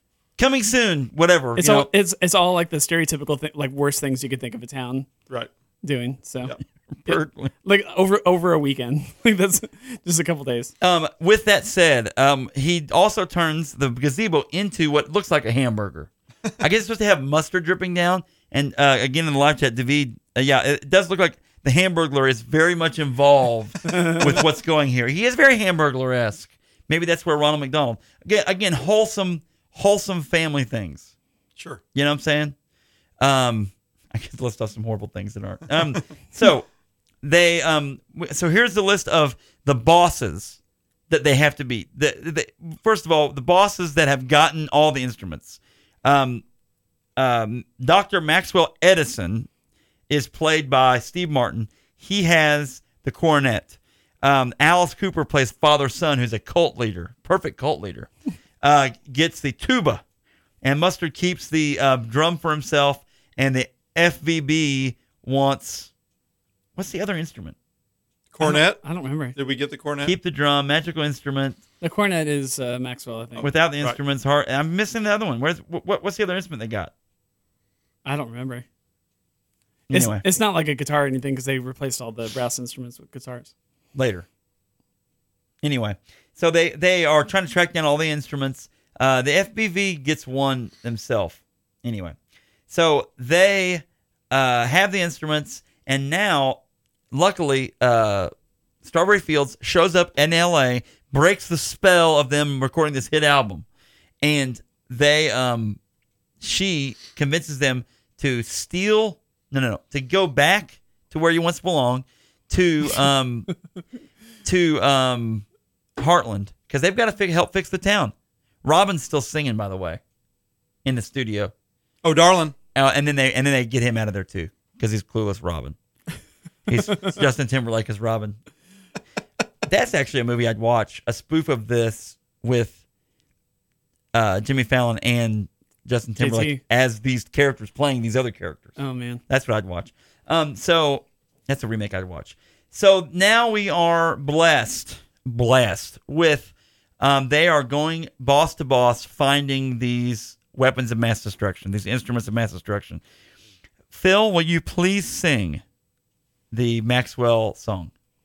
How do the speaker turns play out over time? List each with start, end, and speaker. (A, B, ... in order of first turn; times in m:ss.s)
0:00.4-0:01.9 A
0:01.6-0:05.1 B
0:05.8-0:06.5 B
0:06.9-0:07.5 A
0:07.1-0:10.7 B
0:10.8-0:31.1 A
0:31.6-0:31.8 C
0:31.9-0:32.5 A
0:33.2-0:36.7 A
0:37.2-0:46.4 A
0:47.2-0:49.5 A
0:50.1-0:58.1 A
0:58.6-1:00.0 A
1:00.6-1:05.9 A
1:06.8-1:07.6 A
1:08.3-1:08.8 C
1:08.4-1:09.4 B
1:09.4-1:10.1 C
1:10.0-1:11.6 A
1:11.8-1:13.5 B
1:13.4-1:14.0 C
1:13.4-1:16.9 A
1:18.0-1:18.6 B
1:19.9-1:20.2 A
1:19.9-1:23.5 B
1:23.9-1:24.2 A
1:25.6-1:32.2 A
1:32.7-1:36.6 A
1:37.1-1:38.3 A
1:38.8-1:43.6 A
1:44.2-1:45.8 A
1:46.4-1:53.5 A
1:54.4-1:55.4 A
1:56.0-2:00.0 A
2:00.8-2:01.5 A
2:02.0-2:02.5 C
2:02.7-2:05.8 A
2:06.7-2:08.4 A
2:09.7-2:12.8 A
2:14.1-2:18.8 A
2:16.2-2:16.6 B
2:18.8-2:19.2 B
2:19.3-2:33.0 A
2:33.9-2:35.6 A
2:36.5-2:37.9 A